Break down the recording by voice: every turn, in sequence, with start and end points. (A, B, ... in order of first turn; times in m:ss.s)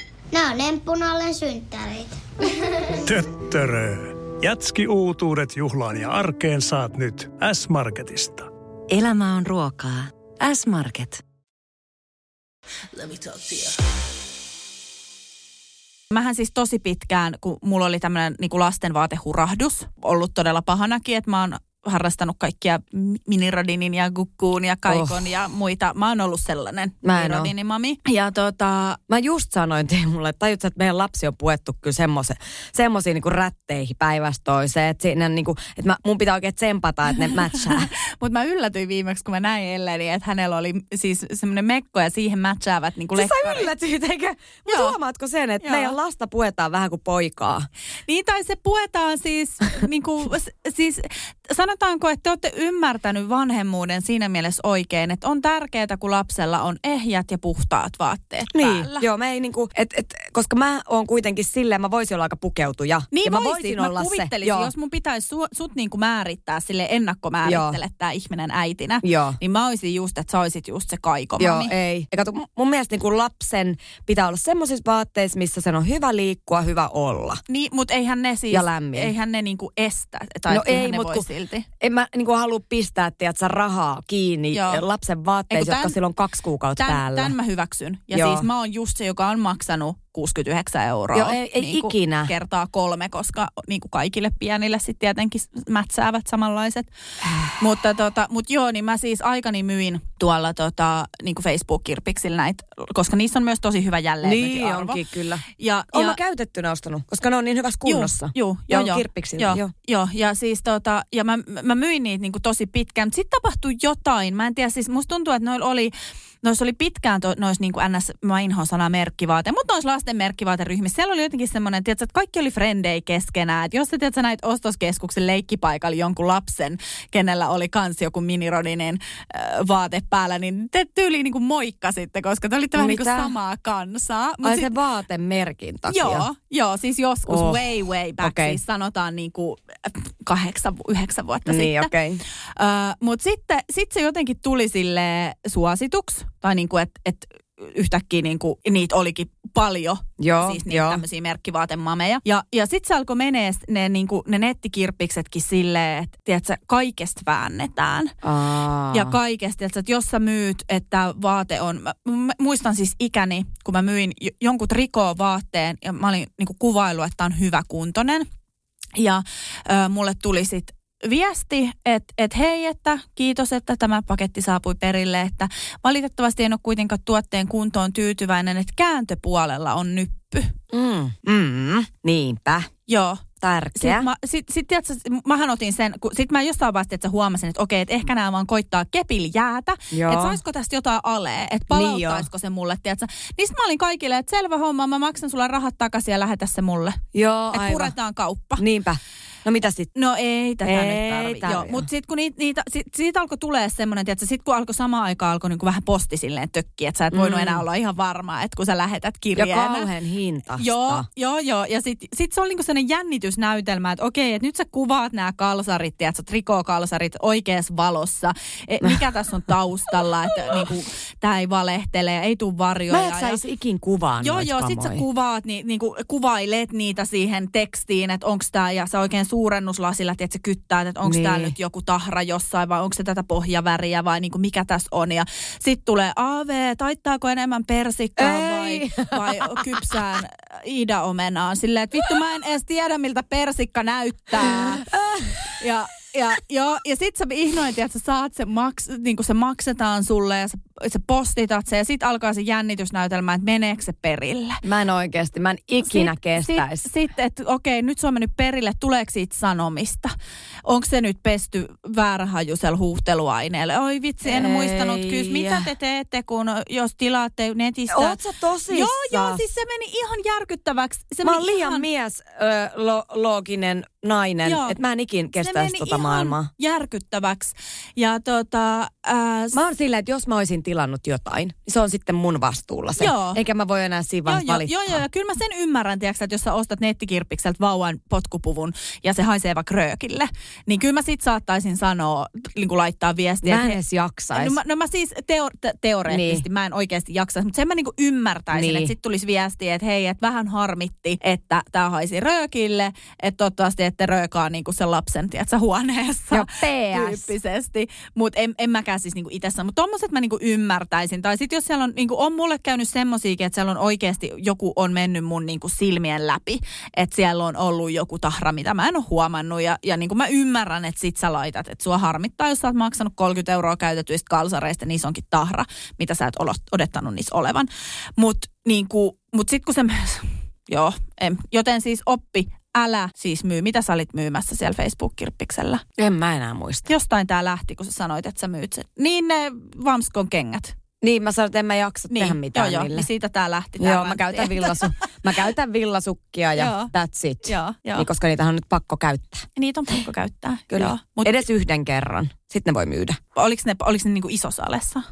0:00.3-0:03.0 A
0:03.0-0:08.5 B
0:08.9-0:11.2 C
0:16.1-0:29.0 D
0:24.9-0:25.2 E
0:27.0-0:27.5 E
0:29.1-0:37.9 E
0:37.6-0:43.7 D
0:43.1-0:47.7 E
0:44.7-0:45.0 D
0:45.6-0:46.0 D
0:48.1-0:59.1 D
0:58.5-1:04.7 E
1:03.1-1:11.7 D
1:07.4-1:07.8 E
1:09.0-1:09.4 E
1:11.4-1:17.4 E
1:17.5-1:21.7 D
1:18.5-1:19.1 E
1:20.5-1:21.3 E
1:21.8-1:27.4 E
1:24.5-1:24.8 D
1:25.5-1:26.0 D
1:26.8-1:36.9 D
1:28.1-1:28.5 E
1:31.1-1:32.3 E
1:37.6-1:45.0 D
1:44.2-1:49.7 E
1:45.6-1:46.2 D
1:47.8-2:14.7 D
2:12.8-2:13.3 E
2:14.4-2:16.3 E
2:15.9-2:21.9 D
2:17.3-2:17.6 E
2:18.2-2:18.6 E
2:21.5-2:22.2 E
2:22.6-2:38.1 D
2:30.2-2:31.0 E
2:38.2-2:39.2 E
2:38.9-2:48.3 D
2:49.0-3:00.5 D
3:00.7-3:02.7 E
3:02.9-3:03.2 D
3:03.4-3:04.1 E
3:03.8-3:17.0 D
3:09.9-3:10.4 E
3:11.7-3:12.3 E
3:17.1-3:17.9 E
3:17.5-3:18.6 D
3:18.6-3:19.9 E
3:20.0-3:29.9 D
3:20.6-3:21.9 E
3:27.1-3:27.6 E
3:29.4-3:31.1 E
3:30.6-3:43.4 D
3:42.9-3:45.0 E
3:44.2-4:04.9 D
3:51.0-3:51.5 E
3:58.2-3:59.9 E
4:04.4-4:05.5 E
4:05.6-4:14.6 D
4:14.6-4:16.9 E
4:15.8-4:20.1 D
4:20.7-4:31.9 D
4:24.2-4:25.7 E
4:27.9-4:29.4 E
4:31.2-4:36.5 E
4:34.4-4:34.8 D
4:35.4-4:39.6 D
4:39.5-4:45.0 E
4:43.0-4:43.4 D
4:44.3-4:53.8 D
4:53.4-4:54.6 E
4:54.3-5:35.8 D
4:56.1-4:56.4 E
4:58.5-4:58.9 E
5:06.3-5:07.3 E
5:36.0-5:36.9 E
5:36.9-5:40.7 D
5:41.0-5:43.1 E
5:42.1-5:44.9 D
5:43.8-5:49.5 E
5:46.6-5:46.9 D
5:47.4-5:48.1 D
5:49.6-5:51.4 D
5:50.7-5:53.2 E
5:53.4-5:55.0 D